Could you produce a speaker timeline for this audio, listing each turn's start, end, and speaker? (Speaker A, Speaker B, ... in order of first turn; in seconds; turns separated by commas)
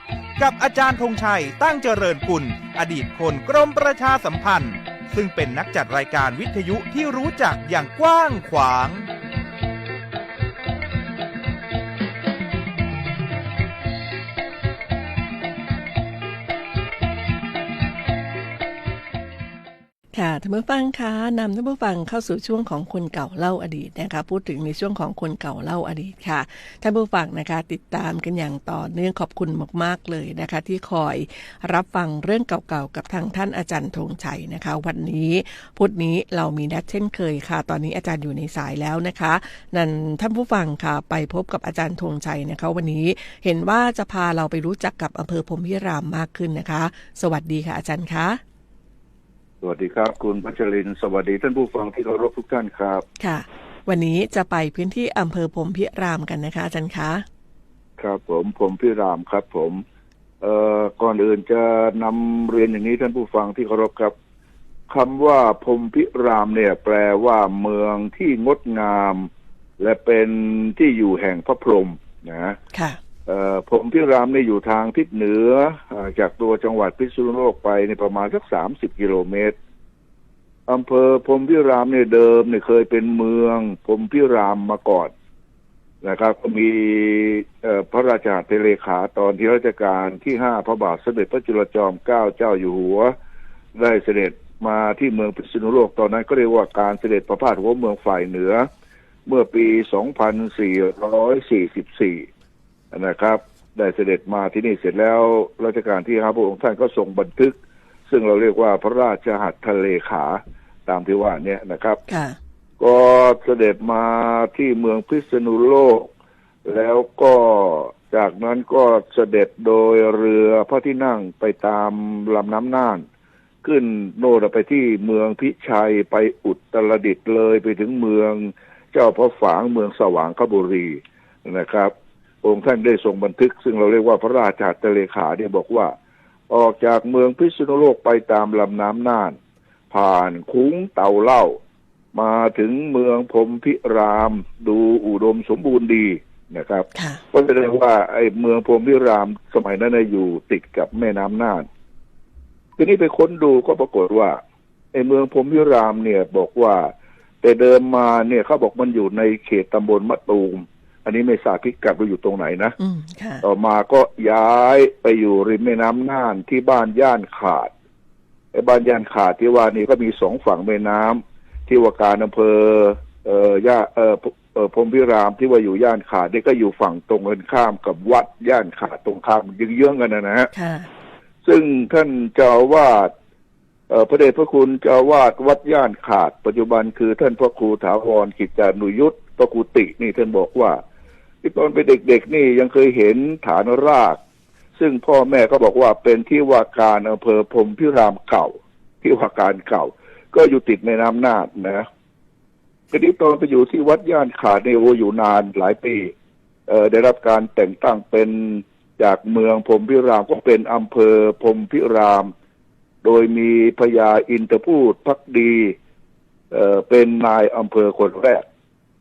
Speaker A: 0.4-9.1, Speaker B: 20.1-48.4, Speaker C: 49.6-53.0, Speaker B: 53.2-57.2, Speaker C: 58.0-59.8, Speaker C: 60.4-64.1, Speaker C: 64.9-72.6, Speaker B: 72.7-73.0, Speaker C: 73.2-79.5, Speaker C: 80.7-85.1, Speaker C: 86.0-93.1, Speaker C: 93.8-98.7, Speaker C: 99.2-102.3, Speaker C: 102.9-107.6, Speaker C: 108.1-112.0, Speaker B: 112.1-112.4, Speaker C: 112.8-116.1, Speaker C: 116.7-123.0, Speaker C: 123.6-135.9, Speaker C: 136.5-139.4, Speaker C: 139.9-141.6, Speaker C: 142.1-151.7, Speaker B: 146.9-147.2, Speaker C: 152.8-154.4, Speaker C: 154.9-156.9, Speaker C: 157.4-162.8, Speaker B: 162.8-163.4, Speaker C: 163.4-167.7, Speaker C: 168.5-180.5, Speaker B: 180.5-180.9, Speaker C: 181.4-183.1, Speaker C: 183.9-190.8, Speaker C: 191.4-194.2, Speaker C: 194.8-201.8, Speaker C: 202.9-206.1, Speaker C: 206.7-212.3, Speaker C: 213.0-215.8, Speaker C: 216.5-218.4